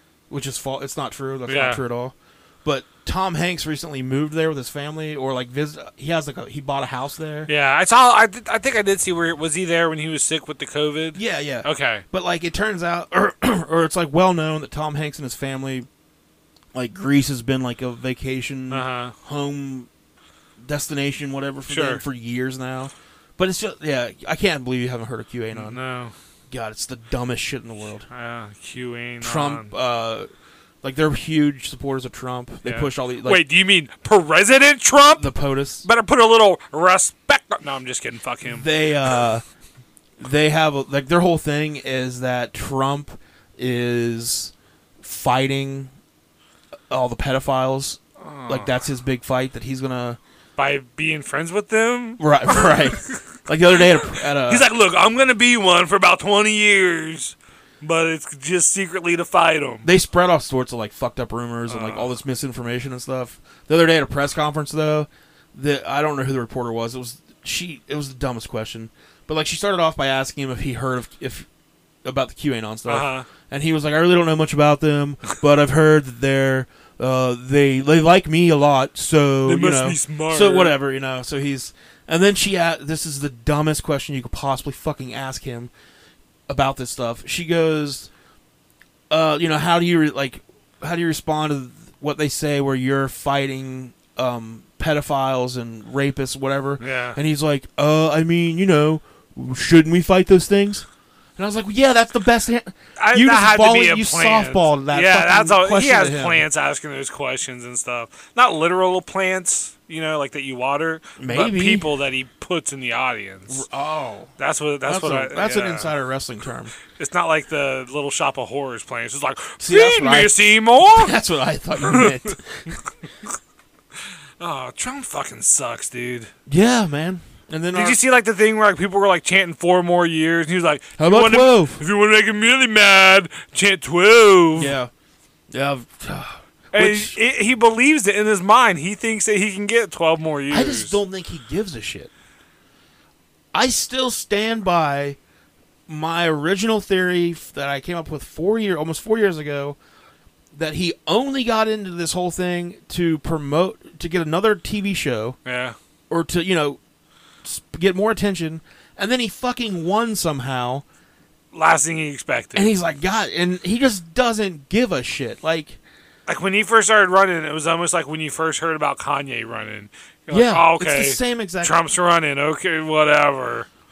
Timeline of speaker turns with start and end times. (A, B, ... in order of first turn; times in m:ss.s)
0:00.3-0:07.5 A
0:01.5-0:01.8 B
0:07.5-0:12.0 B
0:11.1-0:15.9 A
0:16.7-0:19.9 A
0:18.7-0:19.1 B
0:20.6-0:25.8 A
0:21.7-0:22.0 B
0:25.5-0:26.1 B
0:26.5-0:28.0 A
0:28.1-0:29.7 B
0:29.2-0:30.3 A
0:30.8-0:33.4 A
0:32.6-0:35.3 B
0:35.2-0:35.9 A
0:35.8-0:39.2 B
0:38.5-0:39.4 A
0:40.2-0:45.9 A
0:46.9-0:50.2 A
0:48.2-0:48.7 B
0:50.6-0:53.2 B
0:52.2-0:54.7 A
0:53.9-0:59.9 B
0:59.8-1:11.5 A
1:01.7-1:02.1 B
1:12.0-1:25.7 A
1:12.8-1:13.3 B
1:19.4-1:20.8 B
1:26.5-1:28.1 A
1:29.1-1:40.8 A
1:36.8-1:37.2 B
1:41.4-1:46.4 A
1:43.0-1:53.6 B
1:51.2-1:51.9 A
1:53.5-1:54.3 A
1:54.4-1:55.9 B
1:54.8-1:56.7 A
1:56.9-2:01.1 B
1:59.6-2:02.8 A
2:01.8-2:02.9 B
2:04.4-2:06.3 B
2:06.5-2:08.0 A
2:07.7-2:14.8 B
2:11.0-2:11.8 A
2:14.6-2:14.9 A
2:15.5-2:17.2 A
2:16.7-2:21.0 B
2:20.5-2:22.1 A
2:23.5-2:25.2 A
2:25.9-2:29.8 A
2:30.6-2:35.4 A
2:35.4-2:35.8 B
2:36.1-2:36.8 A
2:37.4-2:40.8 A
2:41.5-2:42.7 B
2:42.6-2:45.8 A
2:46.3-2:53.7 B
2:50.3-2:51.8 A